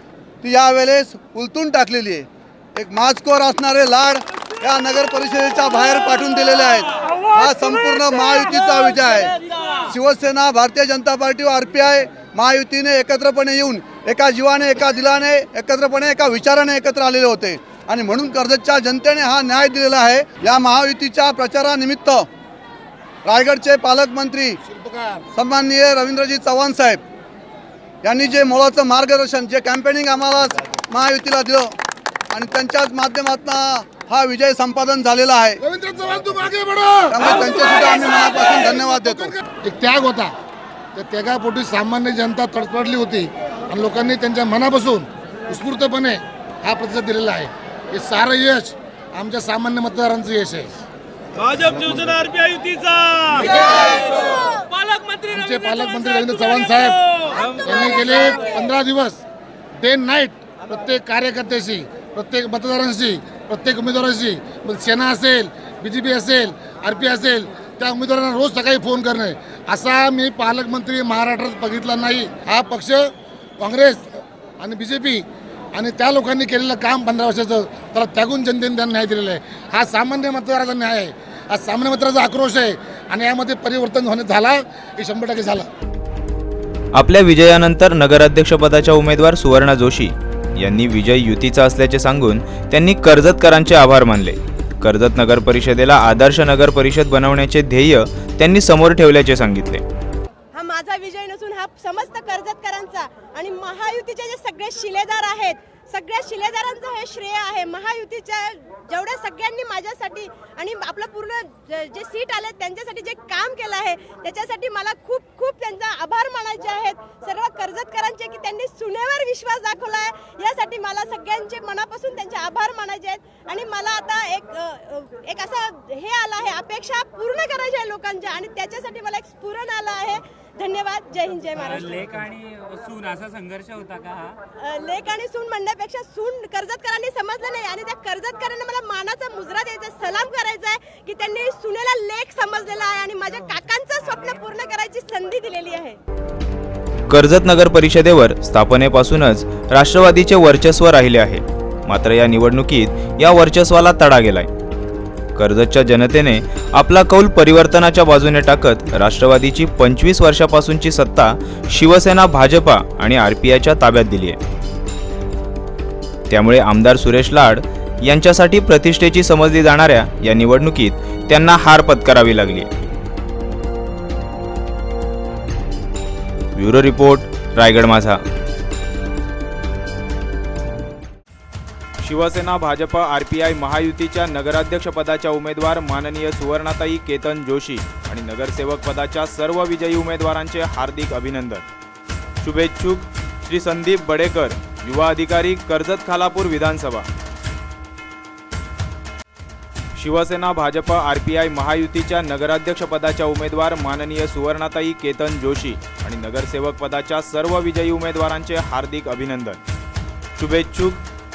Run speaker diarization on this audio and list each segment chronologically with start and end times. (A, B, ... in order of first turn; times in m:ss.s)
0:00.4-0:22.3 A
0:23.2-0:24.6 A
0:24.7-0:25.2 B
0:25.3-0:27.0 A
0:28.0-0:31.8 A
0:32.3-0:35.6 A
0:35.6-0:37.5 B
0:37.1-0:39.4 A
0:39.4-0:40.3 B
0:40.9-0:50.7 B
0:51.4-0:54.1 B
0:55.1-0:59.2 B
0:59.8-1:25.7 B
1:26.9-1:39.8 C
1:40.5-2:12.3 D
2:12.1-2:14.4 E
2:14.6-2:26.0 D
2:27.1-2:34.5 C
2:35.4-2:44.4 C
2:46.3-2:52.7 C
2:56.6-2:58.2 C
3:02.0-3:11.7 C
3:12.4-3:17.1 C
3:19.9-3:29.6 C
3:30.4-3:31.1 C